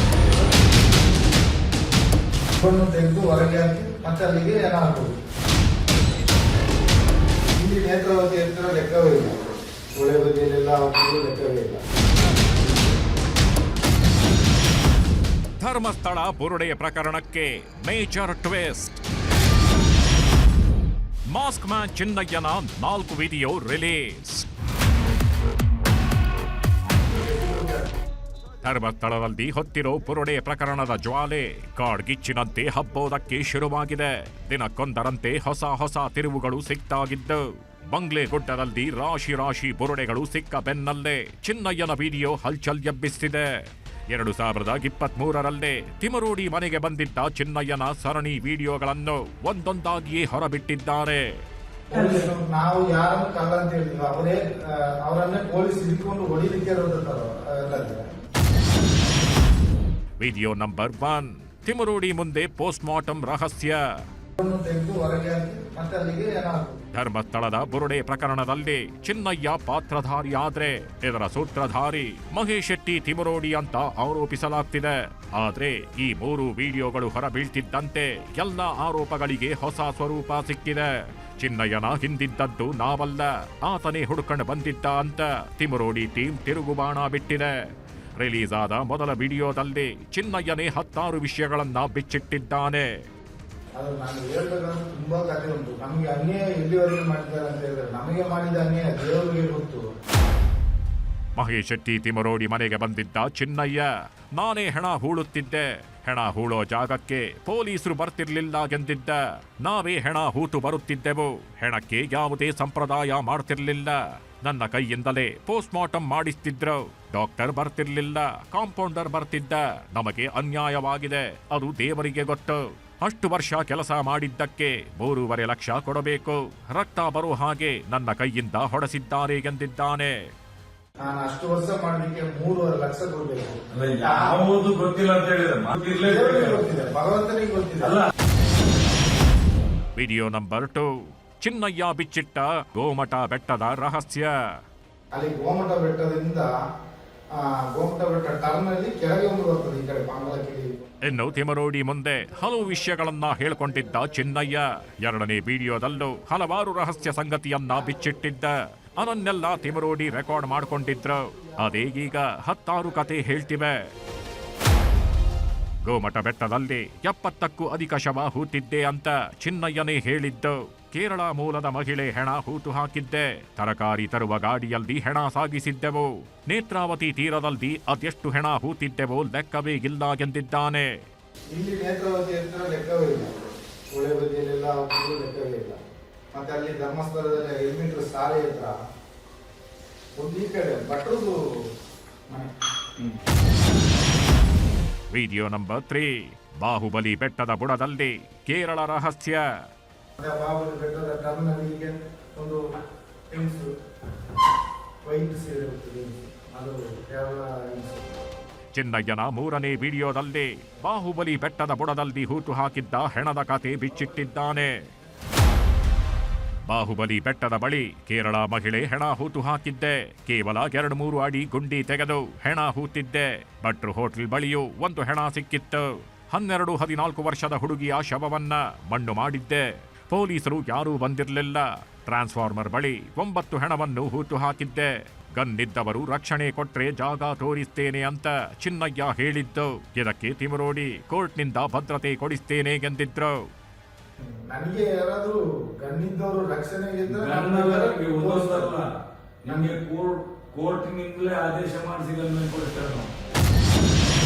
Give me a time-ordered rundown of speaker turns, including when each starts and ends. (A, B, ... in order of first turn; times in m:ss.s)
0:02.6-0:05.1 A
0:07.6-0:09.4 A
0:10.0-0:11.8 A
0:15.6-0:19.0 B
0:21.3-0:24.5 B
0:27.4-0:27.7 A
0:28.6-0:43.5 B
0:44.1-0:51.2 B
0:51.9-0:58.0 A
1:00.2-1:03.8 B
1:04.4-1:06.8 A
1:06.9-1:20.9 B
1:21.4-1:27.5 B
1:28.2-1:32.9 B
1:33.8-1:39.8 A
1:41.4-2:10.1 B
2:11.0-2:14.5 A
2:15.7-2:16.5 C
2:15.8-2:18.0 A
2:20.0-2:20.9 B
2:21.4-2:24.3 B
2:25.1-2:26.5 A
2:27.4-2:30.8 A
2:31.0-2:43.8 B
2:45.8-3:00.9 B
3:01.5-3:03.3 A
3:03.9-3:05.8 A
3:06.3-3:08.8 A
3:10.2-3:11.4 A
3:15.1-3:19.4 B
3:20.2-3:22.6 A
3:23.3-3:23.7 A
3:25.0-3:28.2 A
3:28.7-3:34.7 B
3:36.7-4:03.3 B
4:04.2-4:08.8 A
4:07.1-4:08.9 C
4:09.4-4:09.8 A
4:09.6-4:13.1 C